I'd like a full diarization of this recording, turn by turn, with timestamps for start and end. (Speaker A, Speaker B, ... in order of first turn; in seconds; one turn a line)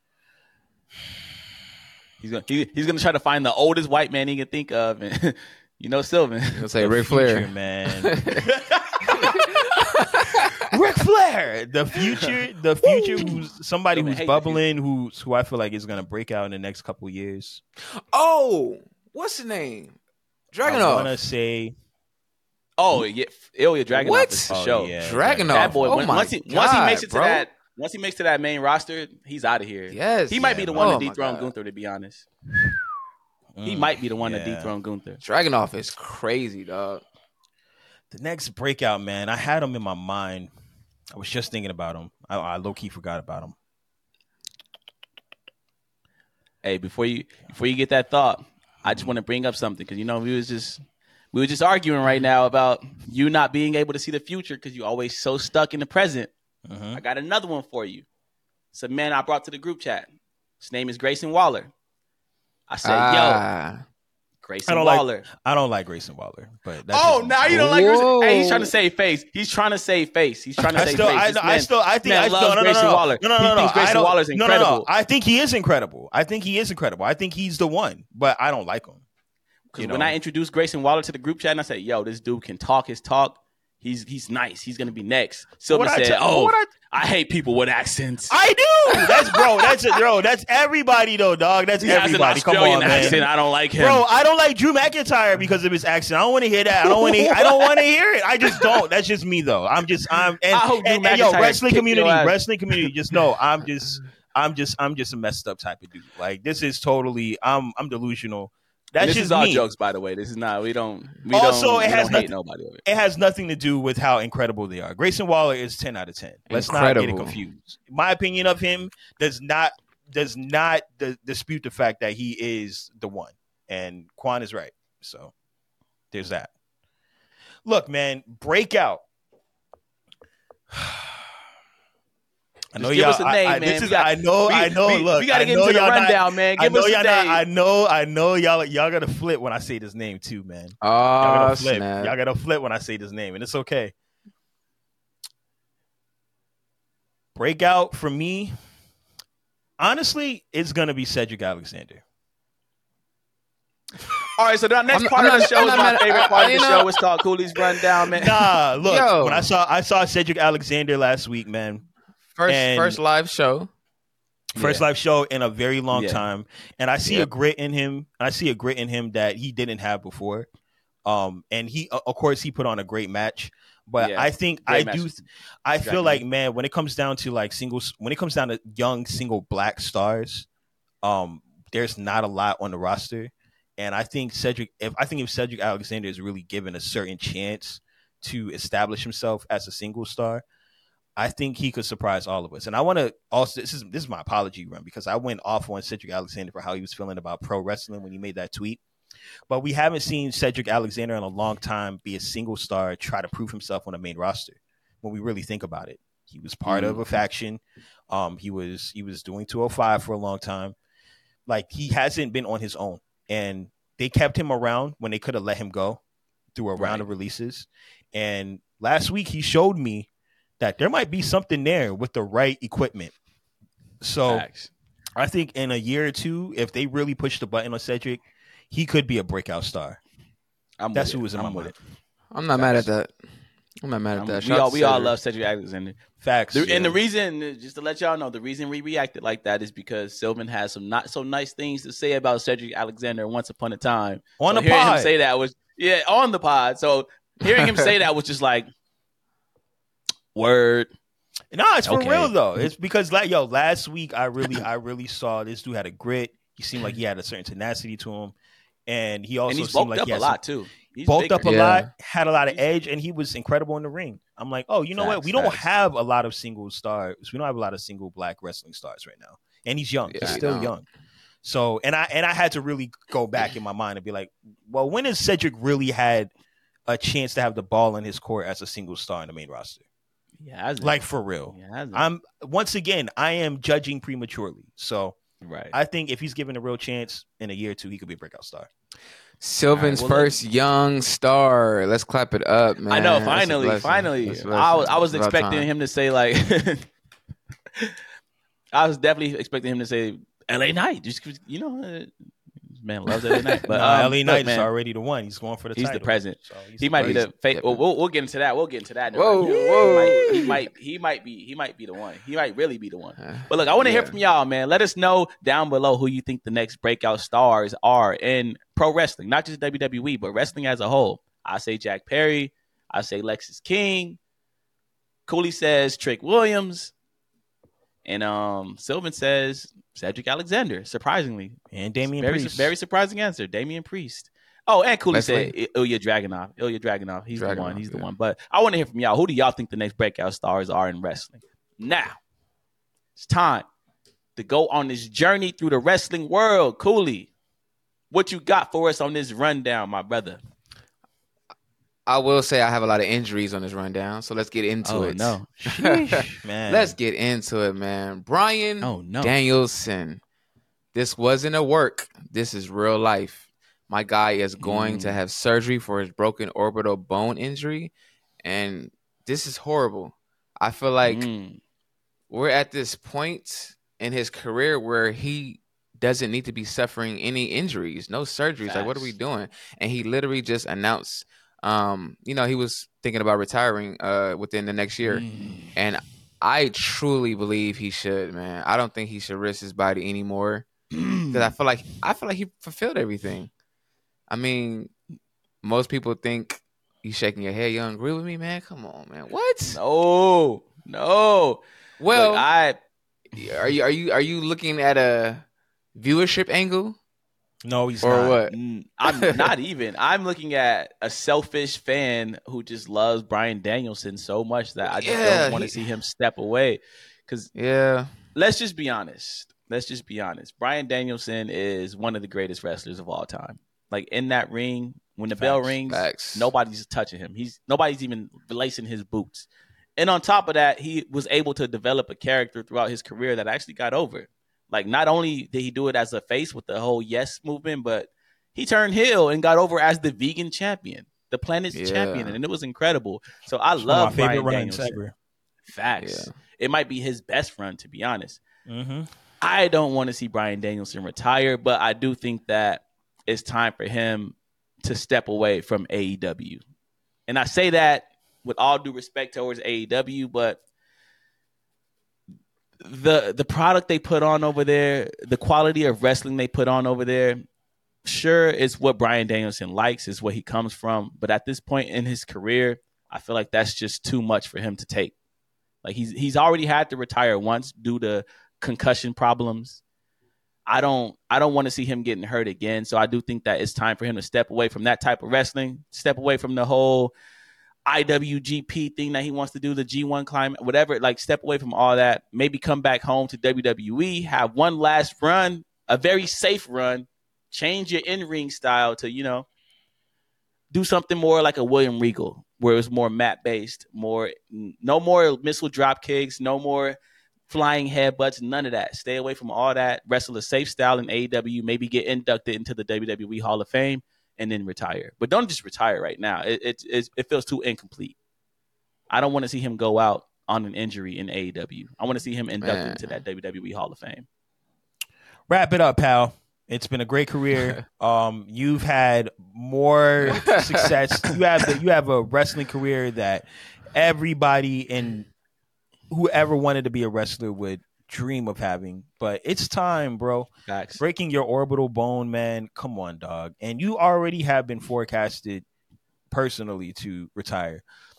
Speaker A: 2.2-6.7
Speaker B: 6.5-7.5
Speaker C: 6.8-8.2
Speaker B: 8.0-8.4
Speaker A: 8.3-9.3
Speaker B: 9.2-10.6
Speaker C: 10.6-17.6
Speaker B: 12.8-13.4
Speaker A: 13.9-14.6
Speaker B: 17.9-19.9
Speaker B: 20.5-21.1
Speaker C: 20.6-21.7
Speaker A: 22.8-24.9
Speaker B: 23.9-27.4
Speaker C: 24.5-26.3
Speaker A: 25.5-32.3
Speaker B: 29.9-31.5
Speaker C: 30.4-31.0
Speaker C: 33.5-34.7
Speaker A: 33.6-35.2
Speaker B: 35.2-37.0
Speaker C: 38.1-40.5
Speaker C: 41.1-43.5
Speaker A: 46.6-50.8
Speaker A: 51.3-56.3
Speaker C: 56.7-57.0
Speaker A: 56.9-58.0
Speaker A: 58.7-61.7
Speaker A: 62.7-63.4
Speaker B: 62.8-63.8
Speaker A: 64.4-65.3
Speaker C: 64.7-67.8
Speaker A: 66.9-74.8
Speaker B: 67.5-68.7
Speaker C: 70.6-79.0
Speaker A: 79.7-88.3
Speaker C: 79.8-80.1
Speaker C: 85.7-86.7
Speaker C: 88.3-93.2
Speaker A: 91.8-94.0
Speaker B: 92.9-93.2
Speaker C: 93.8-109.7
Speaker A: 96.8-97.8
Speaker A: 100.5-102.8
Speaker A: 109.0-112.8
Speaker C: 111.3-112.3
Speaker C: 112.8-125.3
Speaker B: 116.5-117.4
Speaker C: 126.1-126.5
Speaker C: 127.6-129.0
Speaker C: 130.7-131.1
Speaker C: 132.7-143.9
Speaker A: 132.8-137.4
Speaker B: 140.8-142.1
Speaker C: 147.3-148.5
Speaker C: 149.8-152.0
Speaker A: 154.3-158.3
Speaker B: 154.9-156.9
Speaker C: 158.1-161.8
Speaker B: 158.8-159.5
Speaker B: 162.3-163.7
Speaker C: 162.5-163.0
Speaker A: 164.6-164.8
Speaker C: 164.6-170.5
Speaker A: 165.9-166.2
Speaker C: 171.0-180.5
Speaker A: 174.0-175.2
Speaker A: 175.8-176.2
Speaker C: 181.0-190.4
Speaker C: 191.2-198.8
Speaker C: 199.5-210.7
Speaker B: 206.7-207.0
Speaker C: 211.5-216.0
Speaker C: 216.5-220.1
Speaker A: 216.8-217.1
Speaker C: 220.6-223.1
Speaker C: 224.0-224.4
Speaker A: 224.3-224.7
Speaker C: 225.2-230.0
Speaker A: 230.8-231.8
Speaker C: 230.9-231.7
Speaker B: 232.3-233.1
Speaker A: 232.5-232.9
Speaker B: 233.8-235.1
Speaker A: 234.1-236.0
Speaker C: 236.2-237.0
Speaker A: 236.5-248.7
Speaker C: 244.4-245.1
Speaker A: 250.3-250.9
Speaker C: 251.5-258.3
Speaker A: 251.8-252.3
Speaker C: 258.9-260.4
Speaker A: 259.5-261.5
Speaker C: 261.0-270.9
Speaker B: 261.4-261.9
Speaker A: 265.0-265.3
Speaker B: 265.1-265.6
Speaker B: 270.1-270.7
Speaker C: 271.4-276.3
Speaker C: 276.9-279.8
Speaker A: 280.4-281.0
Speaker C: 280.8-285.1
Speaker A: 281.5-282.0
Speaker A: 285.4-285.7
Speaker C: 285.7-288.7
Speaker B: 289.4-295.7
Speaker A: 289.7-290.3
Speaker A: 292.9-296.9
Speaker A: 298.7-302.1
Speaker A: 302.7-304.7
Speaker B: 303.3-303.6
Speaker C: 303.7-307.3
Speaker A: 305.8-324.2
Speaker B: 307.0-307.8
Speaker B: 309.1-310.6
Speaker B: 313.2-314.1
Speaker A: 325.3-326.9
Speaker A: 328.0-331.6
Speaker C: 331.7-332.7
Speaker A: 332.1-342.2
Speaker B: 335.1-335.5
Speaker B: 337.4-338.1
Speaker A: 343.2-343.6
Speaker A: 344.4-347.3
Speaker A: 348.1-350.4
Speaker B: 352.1-360.2
Speaker A: 354.8-355.5
Speaker C: 355.6-356.9
Speaker A: 358.8-359.3
Speaker B: 360.9-367.9
Speaker A: 364.6-365.2
Speaker B: 368.4-371.2
Speaker A: 371.0-371.6
Speaker B: 372.3-390.7
Speaker A: 378.6-379.1
Speaker A: 385.0-385.7
Speaker A: 390.9-391.5
Speaker B: 391.3-393.5
Speaker B: 394.3-394.9
Speaker B: 395.6-399.8
Speaker A: 399.7-402.8
Speaker B: 402.0-402.4
Speaker B: 403.3-405.4
Speaker B: 405.9-407.0
Speaker C: 407.6-408.4
Speaker B: 408.0-408.5
Speaker A: 408.5-417.5
Speaker B: 409.1-409.5
Speaker B: 414.8-415.8
Speaker B: 417.5-418.1
Speaker A: 418.3-445.0
Speaker C: 425.4-425.7
Speaker B: 425.9-426.5
Speaker B: 441.7-442.4
Speaker C: 443.8-445.1
Speaker A: 445.7-448.4
Speaker B: 446.0-446.3
Speaker C: 448.7-449.1
Speaker A: 449.4-456.6
Speaker A: 457.3-460.6
Speaker A: 462.8-467.4
Speaker A: 468.0-475.1
Speaker A: 475.8-479.8
Speaker A: 480.7-487.1
Speaker A: 487.9-499.5
Speaker A: 500.7-518.2
Speaker A: 519.1-524.3
Speaker B: 522.6-523.1
Speaker C: 525.5-535.3
Speaker B: 530.2-530.9
Speaker C: 536.1-545.6
Speaker A: 540.7-541.0
Speaker C: 546.3-547.8